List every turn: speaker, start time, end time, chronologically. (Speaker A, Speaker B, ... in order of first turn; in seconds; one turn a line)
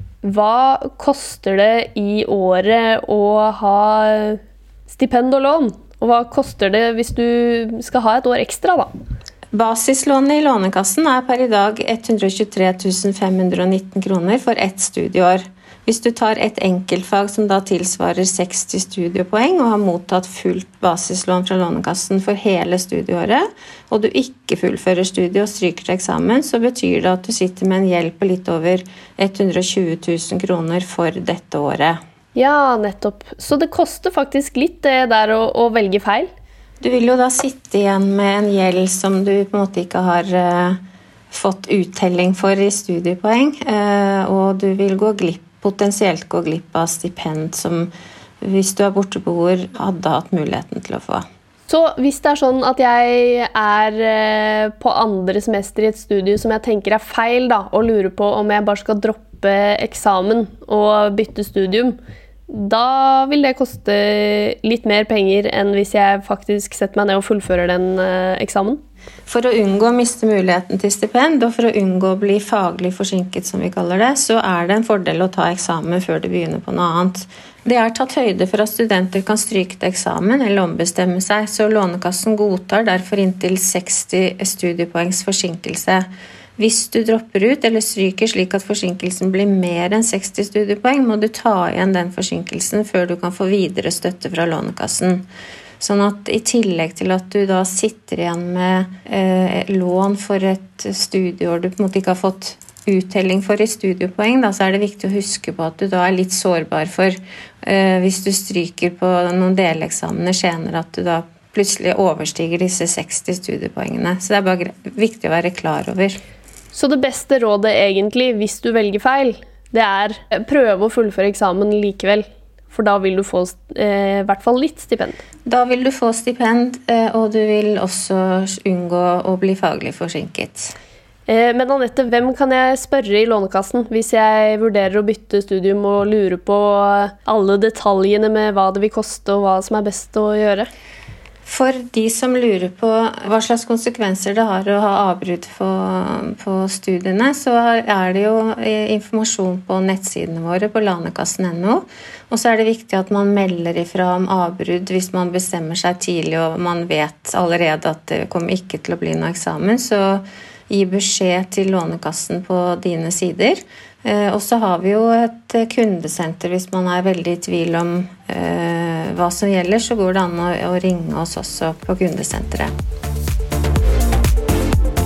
Speaker A: 0.2-8.9
Speaker B: 9.5-32.0
Speaker A: 32.4-36.3
Speaker B: 36.8-40.8
Speaker B: 41.3-47.9
Speaker B: 48.4-51.2
Speaker A: 51.7-62.0
Speaker A: 62.5-68.8
Speaker B: 69.3-95.2
Speaker B: 95.8-116.2
Speaker A: 116.7-125.2
Speaker B: 125.5-130.8
Speaker A: 131.3-140.7
Speaker B: 141.4-172.7